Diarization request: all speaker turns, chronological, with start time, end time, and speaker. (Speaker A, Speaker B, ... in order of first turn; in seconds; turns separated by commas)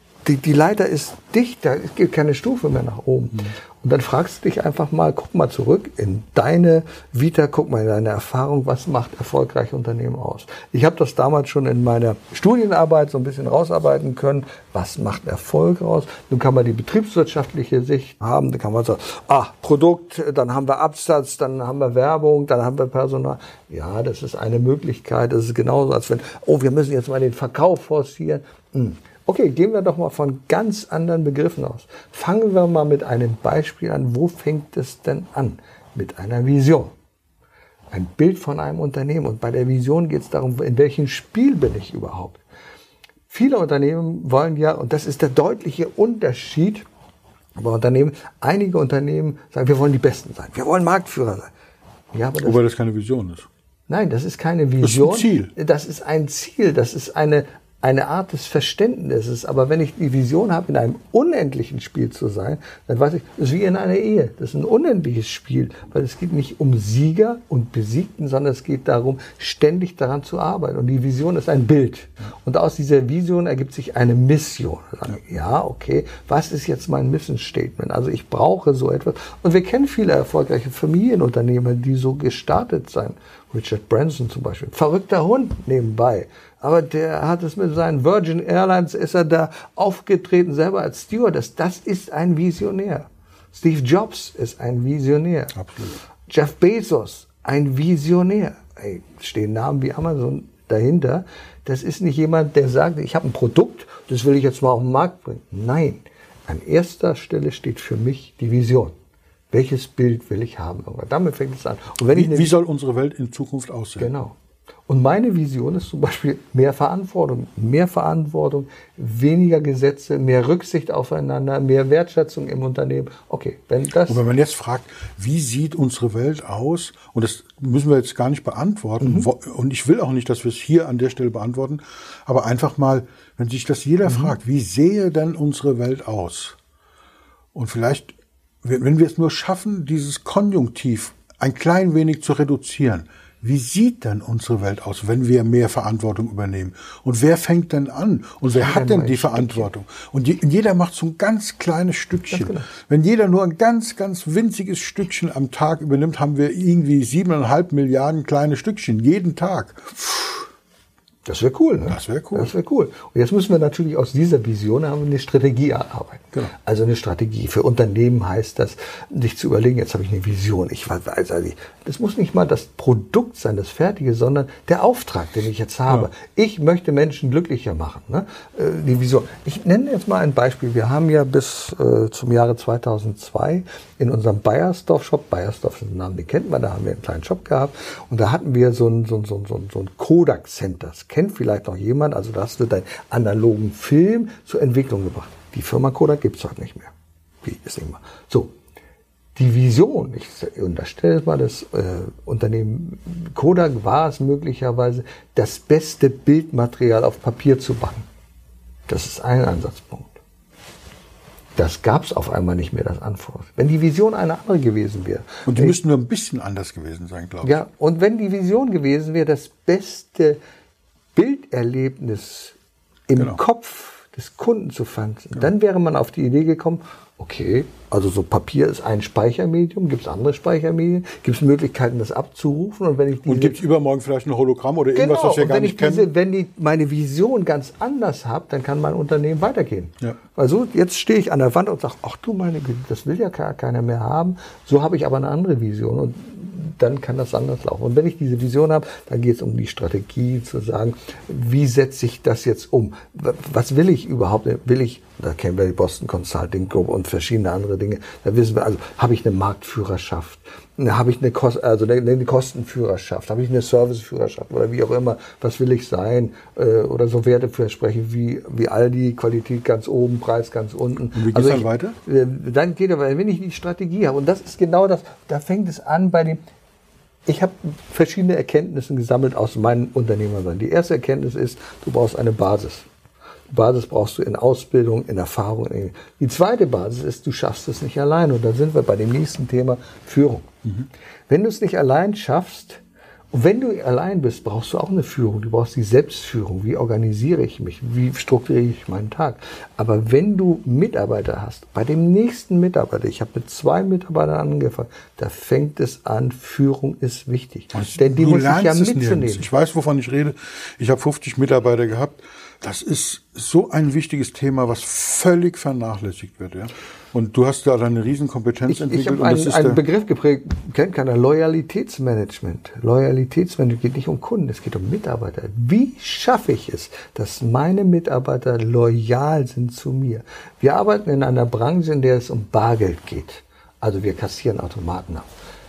Speaker A: 0.2-36.9, Speaker A: 37.9-42.4, Speaker A: 43.3-46.8, Speaker A: 47.6-51.5, Speaker A: 52.1-52.6, Speaker B: 52.4-53.5, Speaker A: 53.9-95.6, Speaker B: 54.8-55.5, Speaker B: 95.5-96.0, Speaker A: 96.3-108.9, Speaker A: 109.5-112.5, Speaker B: 112.1-114.1, Speaker A: 114.0-114.3, Speaker A: 114.9-124.2, Speaker B: 124.1-136.6, Speaker A: 129.0-129.3, Speaker A: 134.1-134.3, Speaker B: 137.5-160.5, Speaker A: 148.5-149.7, Speaker A: 152.3-152.7, Speaker A: 161.2-198.5, Speaker B: 161.9-162.5, Speaker A: 199.3-208.1, Speaker A: 208.9-210.2, Speaker A: 211.6-215.8, Speaker B: 215.4-217.6, Speaker A: 217.4-220.4, Speaker A: 221.1-222.5, Speaker A: 223.1-233.6, Speaker B: 233.2-236.1, Speaker A: 234.9-276.4, Speaker B: 271.1-272.0, Speaker A: 277.2-282.9, Speaker A: 283.5-290.5, Speaker A: 291.3-309.5, Speaker B: 307.7-319.8, Speaker A: 318.7-335.3